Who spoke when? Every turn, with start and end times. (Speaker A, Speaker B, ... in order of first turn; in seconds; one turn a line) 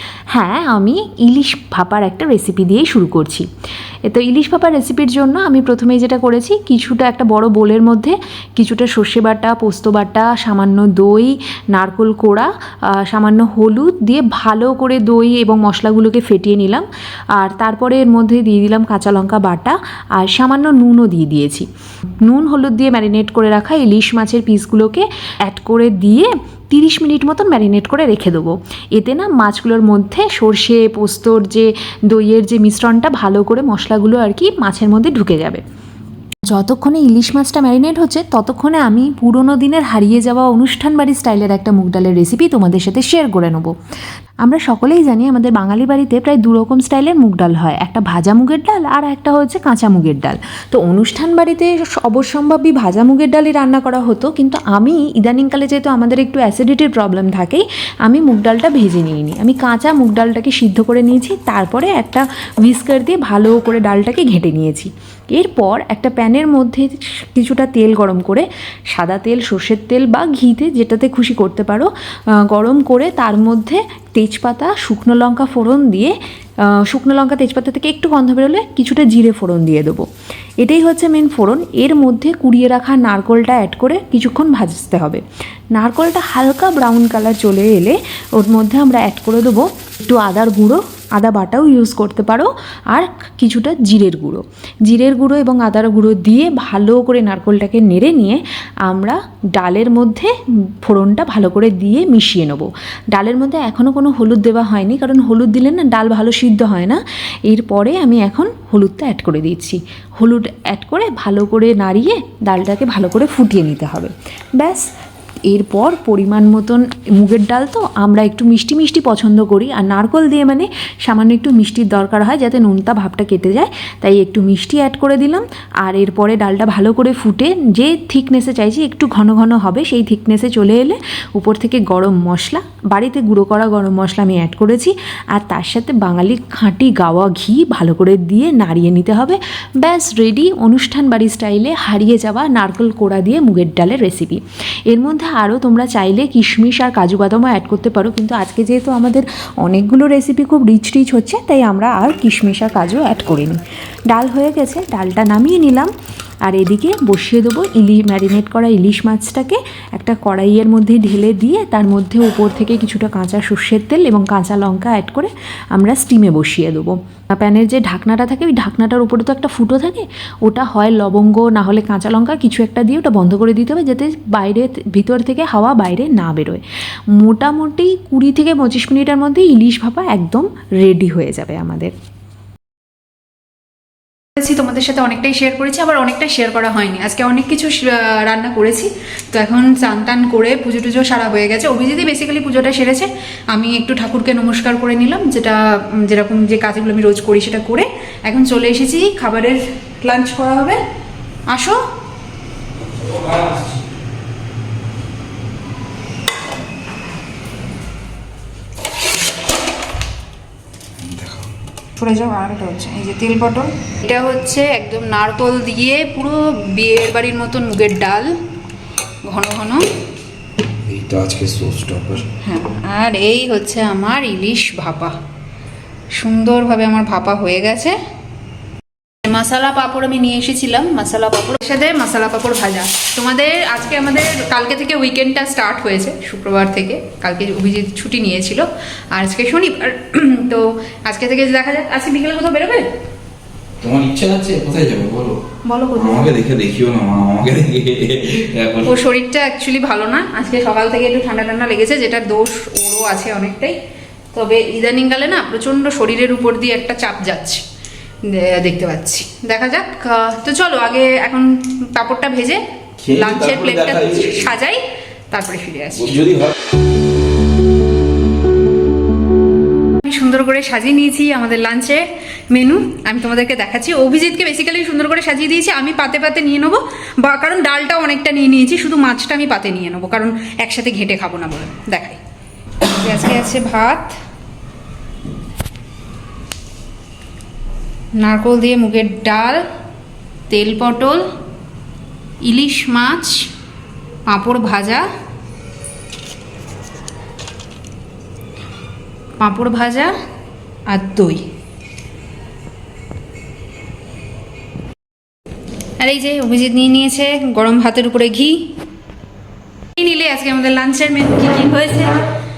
Speaker A: 0.3-3.5
Speaker A: 4.1-16.9
Speaker A: 17.4-21.7
Speaker A: 22.2-35.6
Speaker A: 36.5-43.7
Speaker A: 44.4-71.9
Speaker A: 72.5-76.1
Speaker A: 76.7-80.0
Speaker A: 80.6-85.2
Speaker A: 85.8-114.9
Speaker A: 115.5-155.9
Speaker A: 156.5-176.6
Speaker A: 177.2-181.9
Speaker B: 184.4-200.8
Speaker B: 201.5-201.8
Speaker C: 203.2-203.6
Speaker C: 211.0-211.5
Speaker B: 212.0-218.3
Speaker B: 219.2-219.8
Speaker C: 220.8-222.3
Speaker B: 222.4-225.2
Speaker B: 226.2-228.0
Speaker B: 229.2-242.9
Speaker C: 243.8-245.4
Speaker B: 245.7-246.3
Speaker C: 245.9-248.9
Speaker B: 248.8-253.8
Speaker B: 254.3-257.6
Speaker B: 258.2-266.2
Speaker C: 263.0-264.5
Speaker C: 266.1-266.5
Speaker B: 270.0-282.2
Speaker B: 282.9-284.2
Speaker B: 288.2-289.6
Speaker B: 290.5-291.3
Speaker B: 292.4-293.5
Speaker B: 294.3-295.1
Speaker B: 299.4-300.1
Speaker B: 300.9-301.4
Speaker B: 306.0-308.8
Speaker B: 310.0-312.2